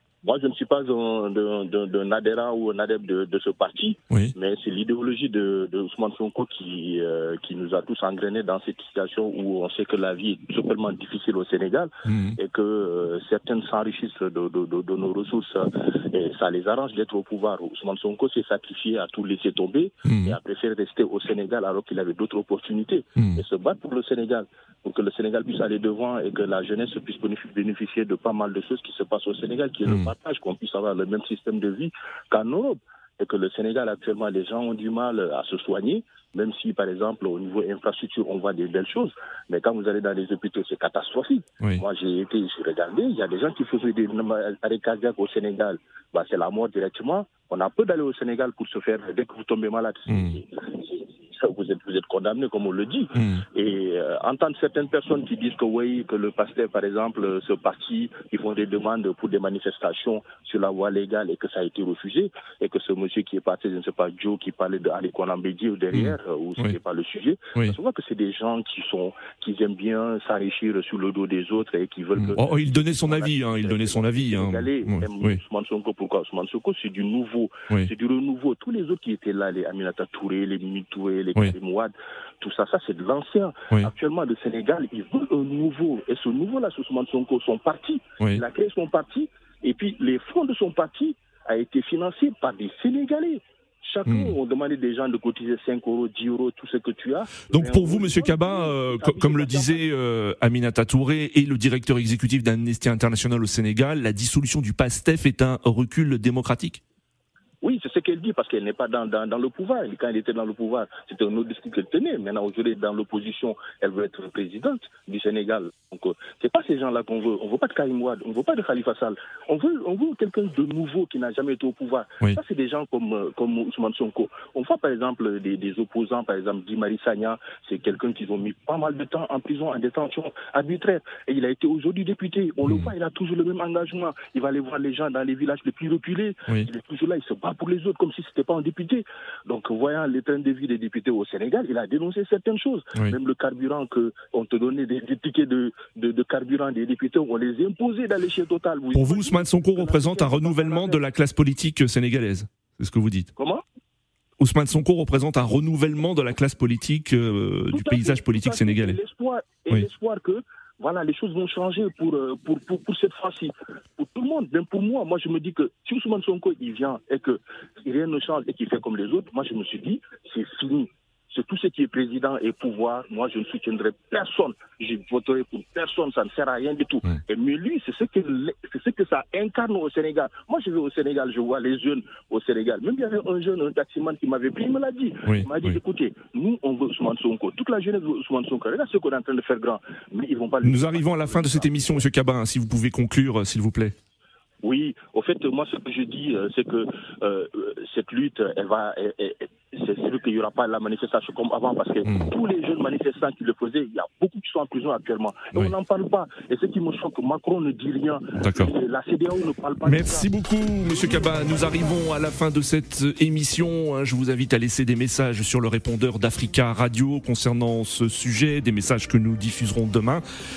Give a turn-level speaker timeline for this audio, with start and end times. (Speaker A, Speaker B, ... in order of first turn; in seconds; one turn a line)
Speaker A: 0.2-99.9
Speaker B: 12.1-12.4
Speaker B: 20.0-20.4
Speaker B: 23.1-23.4
Speaker B: 29.9-30.1
Speaker B: 50.1-50.4
Speaker B: 53.1-53.4
Speaker B: 65.9-66.8
Speaker B: 72.2-75.4
Speaker B: 94.0-94.4
Speaker B: 97.4-106.8
Speaker A: 107.6-151.0
Speaker B: 132.6-132.9
Speaker B: 148.9-153.3
Speaker A: 153.4-153.6
Speaker B: 154.4-159.0
Speaker A: 157.7-192.0
Speaker B: 185.2-185.8
Speaker B: 190.6-193.9
Speaker A: 194.6-212.1
Speaker B: 202.1-202.3
Speaker B: 208.4-208.7
Speaker B: 209.8-220.2